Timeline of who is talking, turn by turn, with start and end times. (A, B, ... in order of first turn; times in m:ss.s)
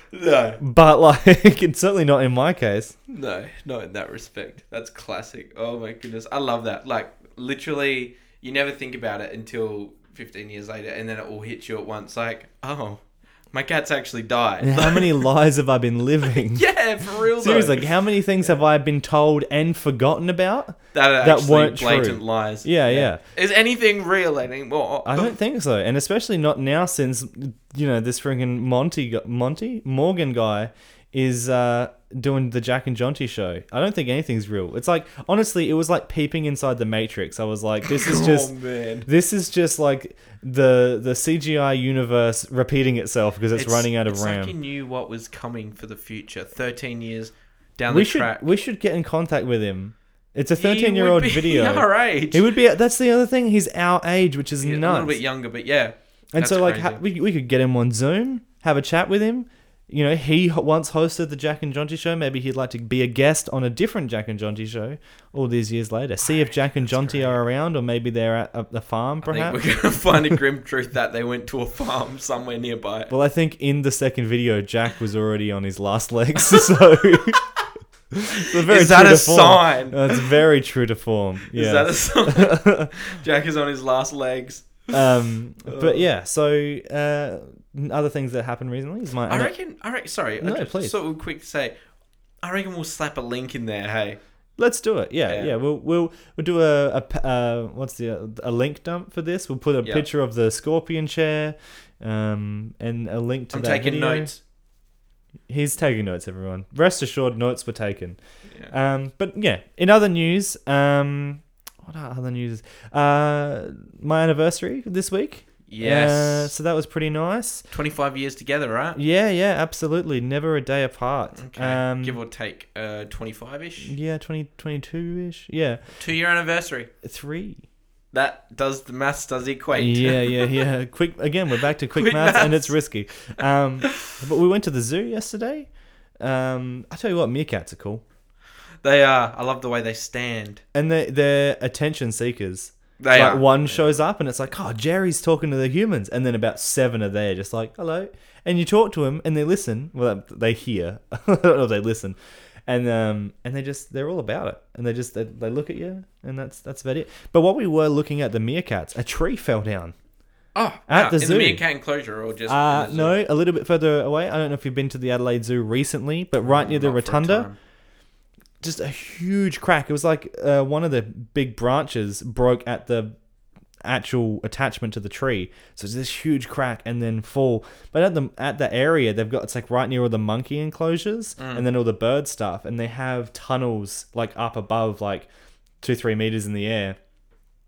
0:00.1-0:00.6 A
0:00.6-0:03.0 B
0:03.1-0:15.2 A
0:14.6-0:16.7 B
0:16.3-0:18.6 A
0:17.4-0:23.2 B
0:20.9-0:25.3 A
0:25.0-0:38.5 B
0:37.8-0:39.1 A
0:39.1-0:44.6 B
0:43.6-0:48.5 A
0:47.9-0:55.2 B
0:50.6-0:52.5 A
0:54.6-0:57.0 A
0:56.3-1:09.8 B
1:06.2-1:07.4 A
1:09.2-1:13.1 A
1:13.1-1:17.4 B
1:18.1-1:22.9 B
1:18.5-1:20.4 A
1:21.5-1:25.0 A
1:24.9-1:29.6 B
1:25.7-1:26.0 A
1:29.3-1:31.8 A
1:30.4-1:30.9 B
1:32.4-1:34.2 A
1:34.6-1:44.3 B
1:35.3-1:35.5 A
1:43.5-1:44.4 A
1:45.5-1:48.2 B
1:48.7-1:57.6 B
1:55.7-1:56.5 A
1:57.7-1:59.0 A
1:59.0-2:02.2 B
2:01.4-2:04.0 A
2:03.8-2:05.8 B
2:06.0-2:06.9 A
2:07.0-2:07.6 B
2:08.1-2:10.6 A
2:09.7-2:15.7 B
2:11.9-2:12.8 A
2:16.2-2:18.0 B
2:18.8-2:20.6 A
2:20.7-2:32.2 B
2:23.0-2:23.9 A
2:32.7-2:40.0 B
2:40.6-2:43.2 A
2:40.9-2:41.6 B
2:42.5-2:47.5 B
2:46.4-2:47.6 A
2:48.6-2:53.2 B
2:53.8-3:05.3 B
3:01.4-3:01.7 A
3:05.8-3:07.0 B